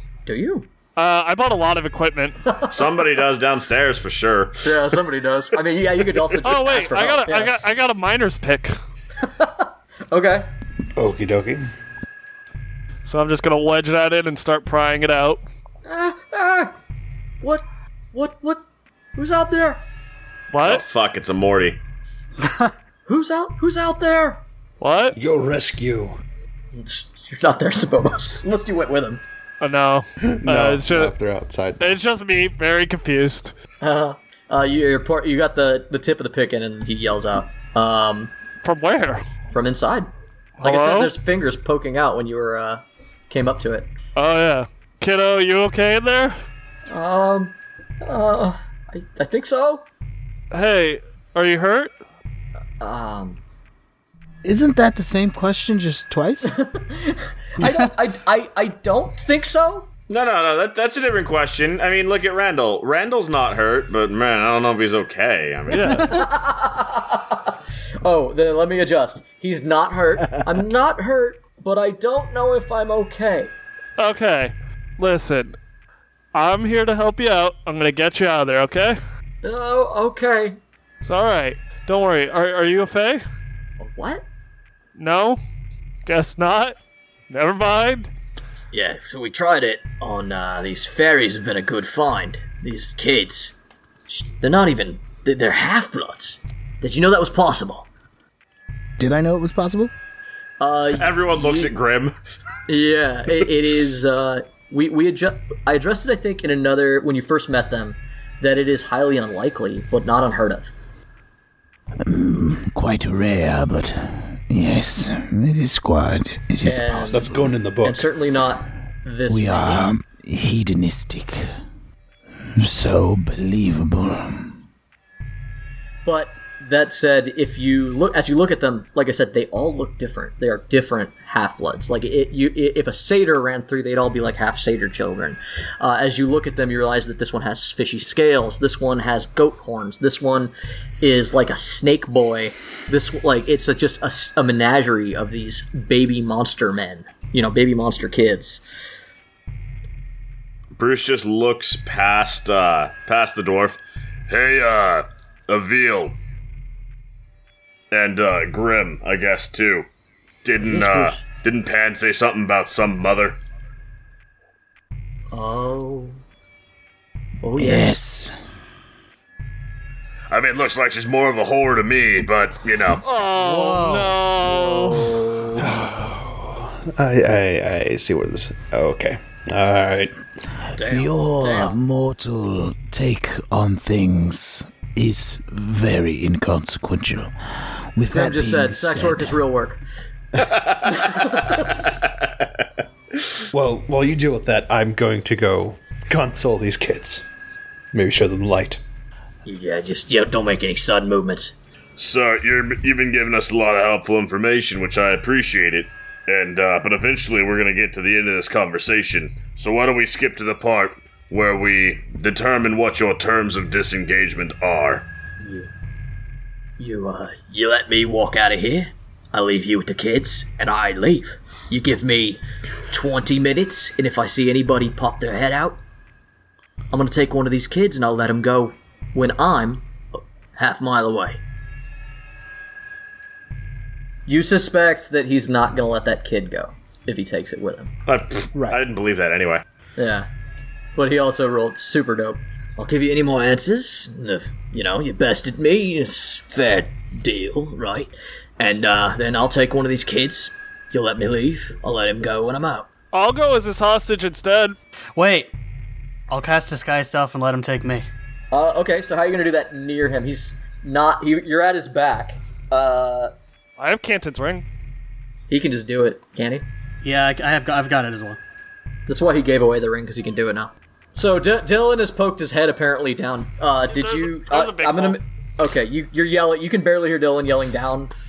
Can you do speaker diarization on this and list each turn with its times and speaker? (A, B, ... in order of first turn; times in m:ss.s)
0:00.2-0:00.7 A
0:01.0-0:02.4 B
0:02.4-0:02.8 A
0:02.7-0:04.8 C
0:04.6-0:07.5 A
0:06.4-0:08.8 B
0:09.2-0:10.4 A
0:11.0-0:11.6 D
0:13.0-0:15.4 B
0:15.8-0:16.7 A
0:17.4-0:18.6 A
0:19.2-0:19.8 A
0:20.5-0:20.8 B
0:20.6-0:21.8 C
0:22.4-0:22.7 E
0:23.0-0:24.4 A
0:24.8-0:25.1 B
0:25.1-0:26.2 D
0:26.7-0:29.2 A
0:29.6-0:31.1 B
0:30.2-0:32.0 D
0:31.8-0:33.5 B
0:33.8-0:38.3 A
0:38.6-0:39.2 B
0:39.5-0:40.1 A
0:40.6-0:41.1 B
0:40.6-0:43.9 A
0:44.2-0:46.3 B
0:46.9-0:49.8 A
0:50.5-0:51.9 B
0:52.8-0:53.4 A
0:54.4-0:56.5 F
0:56.5-0:59.9 A
1:00.1-1:06.2 C
1:05.7-1:06.2 B
1:05.9-1:13.5 A
1:14.0-1:15.6 B
1:16.3-1:19.0 B
1:19.4-1:20.6 A
1:21.0-1:23.2 B
1:23.8-1:24.2 A
1:25.0-1:25.4 B
1:26.0-1:26.7 B
1:27.3-1:28.1 B
1:28.7-1:33.6 A
1:34.1-1:37.9 A
1:39.0-1:39.9 F
1:40.6-1:41.7 A
1:40.9-1:42.2 C
1:42.7-1:50.7 A
1:52.0-1:57.6 F
1:56.6-1:57.3 A
1:57.1-1:58.1 D
1:57.8-1:59.9 A
1:59.3-2:01.5 F
2:02.5-2:04.6 F
2:06.0-2:28.6 A
2:30.8-2:36.1 C
2:37.9-2:39.9 C
2:40.4-2:43.4 C
2:40.7-2:41.2 A
2:45.3-2:46.2 A
2:47.4-2:48.0 A
2:47.6-2:48.3 F
2:50.3-2:53.0 C
2:53.0-2:55.2 B
2:53.3-2:54.2 E
2:54.8-2:55.6 A
2:55.6-3:00.1 D
3:00.7-3:01.8 A
3:00.8-3:07.3 F
3:08.0-3:09.4 F
3:08.1-3:09.8 A
3:10.5-3:10.9 C
3:10.8-3:11.9 A
3:11.9-3:12.5 C
3:13.5-3:17.2 D
3:17.9-3:18.8 D
3:19.4-3:21.5 A
3:22.0-3:35.0 C
3:35.4-3:35.7 A
3:36.8-3:45.8 A
3:46.9-3:49.8 A
3:50.5-3:51.4 A
3:54.2-3:57.9 A
3:58.1-3:59.6 C
4:00.0-4:00.3 A
4:01.0-4:12.9 A
4:13.1-4:14.8 B
4:15.2-4:15.5 E
4:16.3-4:18.1 E
4:18.5-4:23.3 A
4:23.8-4:24.6 B
4:25.5-4:26.6 A
4:27.0-4:28.4 E
4:29.1-4:38.1 A
4:33.9-4:35.2 B